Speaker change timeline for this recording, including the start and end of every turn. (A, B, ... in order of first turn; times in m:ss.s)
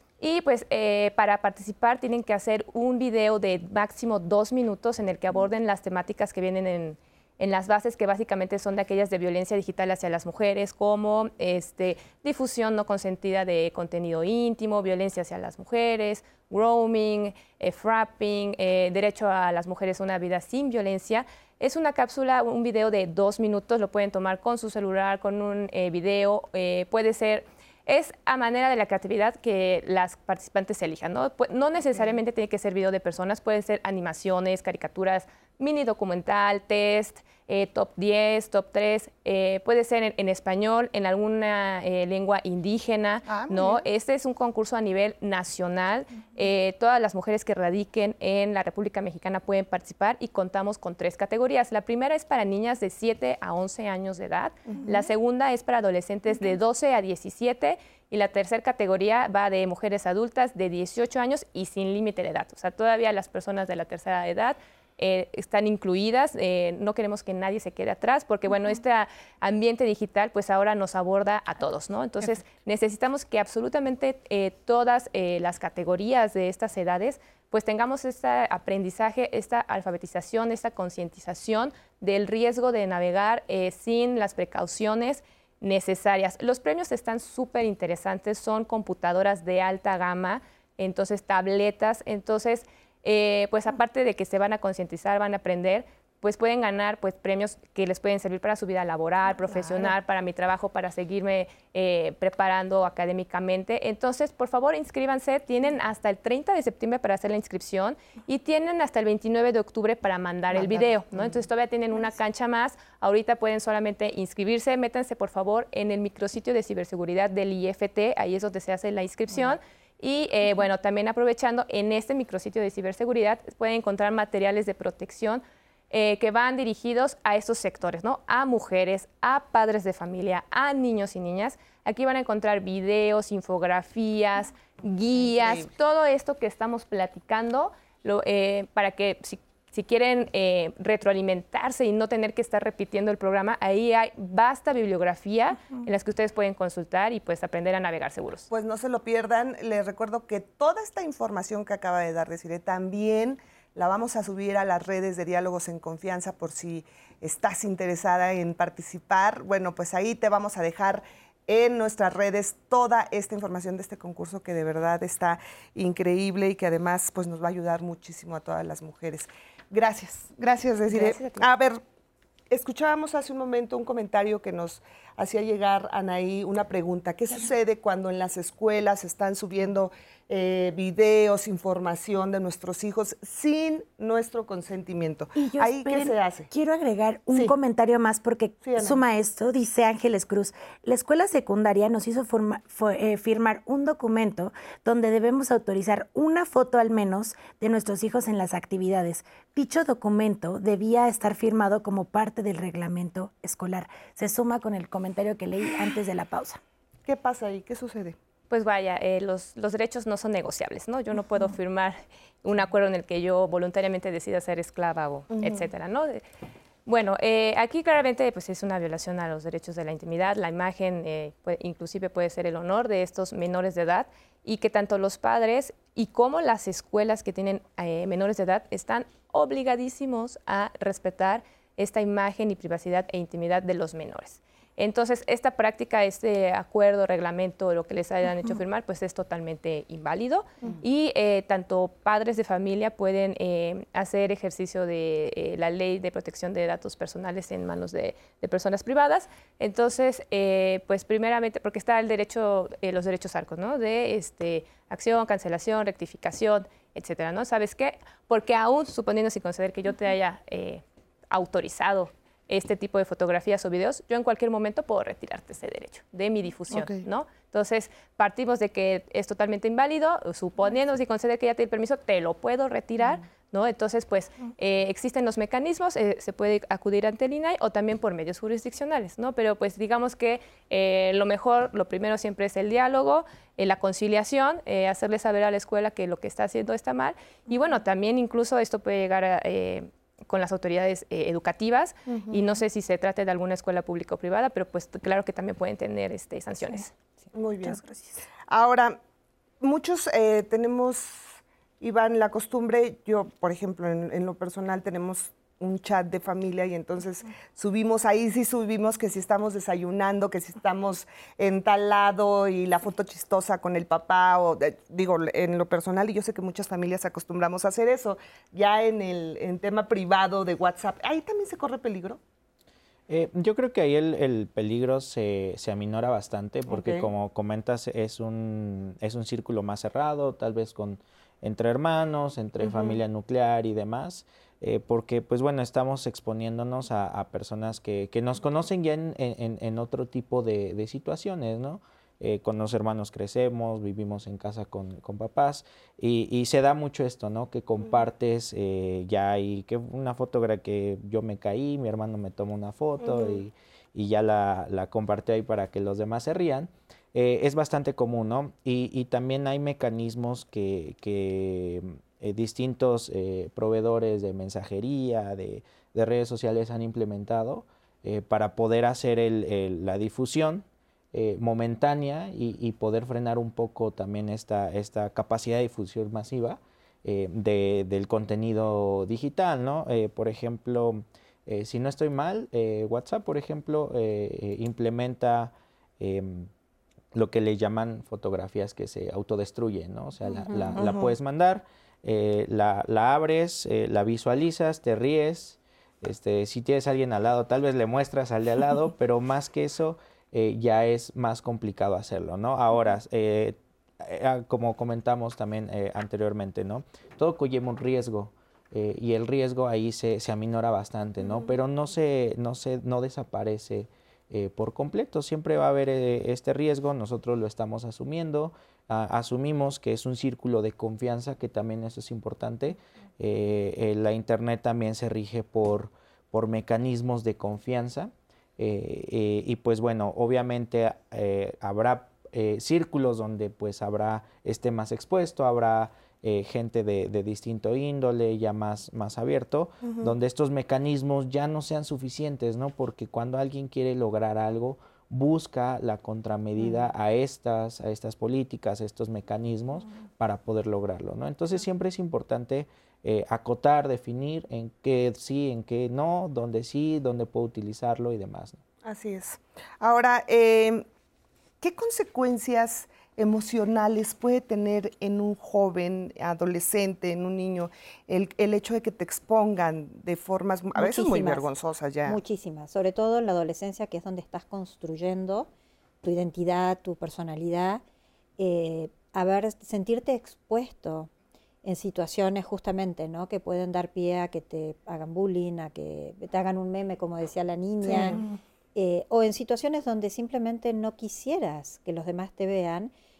0:00.2-2:28.5 A
0:43.2-0:43.8 B
1:50.6-1:50.9 B
2:15.2-2:15.7 B
2:28.5-2:51.8 B
2:50.9-2:51.5 C
2:52.5-3:06.5 B
3:05.3-3:26.6 C
3:08.6-3:09.0 B
3:27.0-3:28.2 B
3:28.5-3:36.2 A
3:35.3-3:35.7 B
3:36.8-4:56.9 A
4:26.7-4:27.0 B
4:52.1-4:52.5 B
4:57.3-4:57.8 B
4:57.6-4:58.2 C
4:58.4-4:59.0 B
4:59.6-5:22.2 B
5:23.1-6:26.5 D
5:26.7-5:27.1 B
5:32.6-5:33.0 B
5:53.0-5:53.4 B
6:27.1-7:38.6 D
6:30.3-6:30.9 E
6:30.7-6:31.1 B
6:51.2-6:51.5 B
7:19.8-7:20.1 B
7:26.6-7:26.8 B
7:38.8-7:40.8 B
7:41.6-7:52.2 B
7:50.7-7:51.5 E
7:52.0-7:55.5 E
7:56.0-7:57.8 E
7:58.4-8:01.1 E
8:01.6-8:08.2 E
8:07.8-8:08.3 B
8:08.7-8:12.9 E